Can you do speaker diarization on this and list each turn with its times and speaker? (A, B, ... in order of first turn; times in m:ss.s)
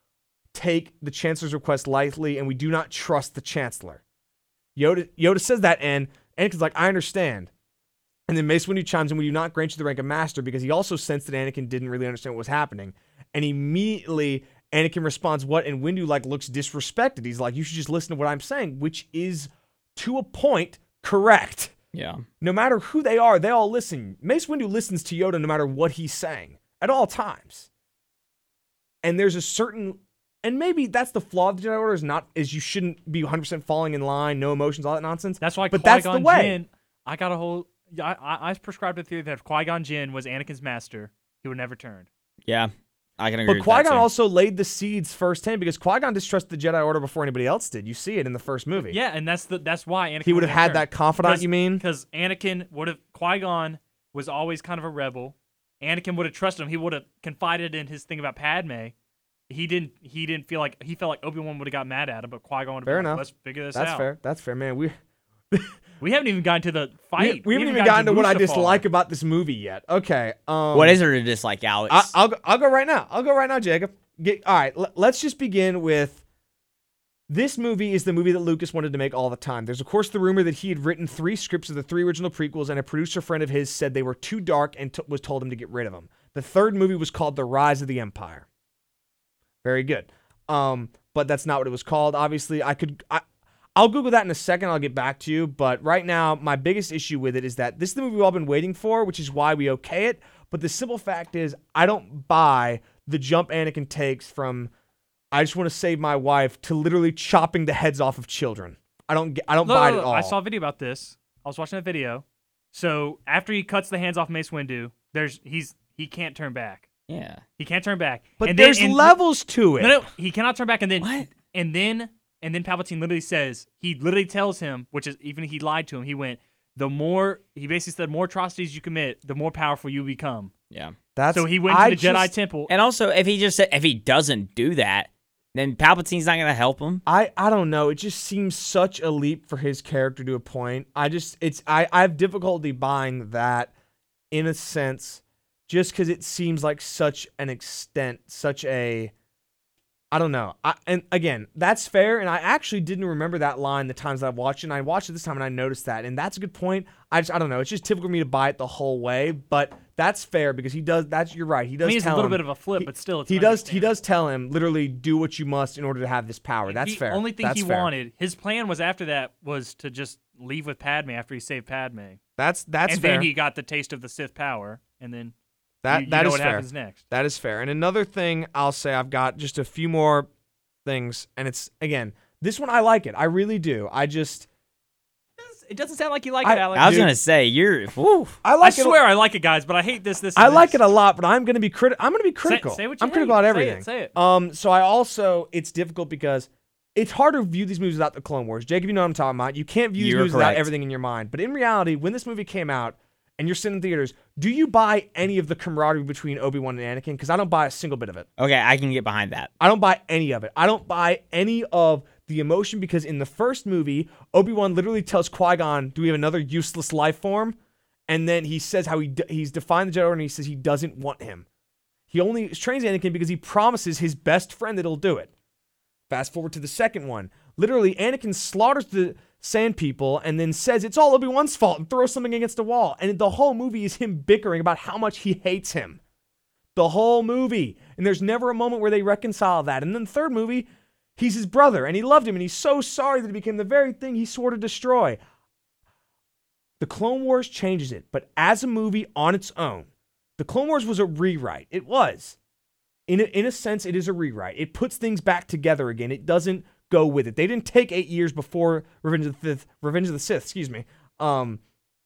0:00.5-0:04.0 A
0:04.8-0:07.5 A
0:08.3-0:21.7 A
0:21.9-0:22.2 B
0:22.4-0:27.7 A
0:29.0-0:36.6 A
0:35.4-0:42.1 C
0:42.5-0:44.1 B
0:43.5-0:49.0 A
0:48.8-0:58.9 C
0:50.2-0:51.8 A
0:59.5-1:04.1 C
1:02.9-1:04.9 A
1:06.0-1:08.8 C
1:07.2-1:11.0 A
1:10.7-1:12.1 B
1:11.9-1:16.2 A
1:17.3-1:28.5 A
1:29.6-1:33.2 A
1:33.8-1:44.7 A
1:45.3-1:50.4 A
1:49.6-1:56.9 C
1:57.1-1:57.4 B
1:57.6-1:59.2 C
1:58.4-2:00.0 A
1:59.8-2:10.5 C
2:01.0-2:01.3 B
2:11.2-2:12.3 A
2:11.3-2:12.7 C
2:12.7-2:17.0 B
2:17.1-2:23.7 A
2:24.3-2:29.1 A
2:30.1-2:47.9 A
2:41.8-2:44.0 C
2:46.7-2:52.2 C
2:52.4-2:53.3 A
2:52.9-2:55.3 C
2:55.8-3:00.3 A
2:55.9-2:57.0 C
3:00.8-3:04.5 A
3:05.4-3:07.1 C
3:06.4-3:07.1 A
3:06.8-3:08.4 B
3:08.4-3:09.0 A
3:08.6-3:10.8 C
3:10.4-3:28.3 A
3:12.4-3:14.2 C
3:20.0-3:20.7 B
3:28.4-3:29.5 B
3:29.6-3:37.6 A
3:38.1-3:41.5 A
3:42.1-3:45.3 A
3:46.1-3:56.0 A
3:56.8-4:05.2 A
4:06.8-4:12.4 A
4:13.1-4:21.6 A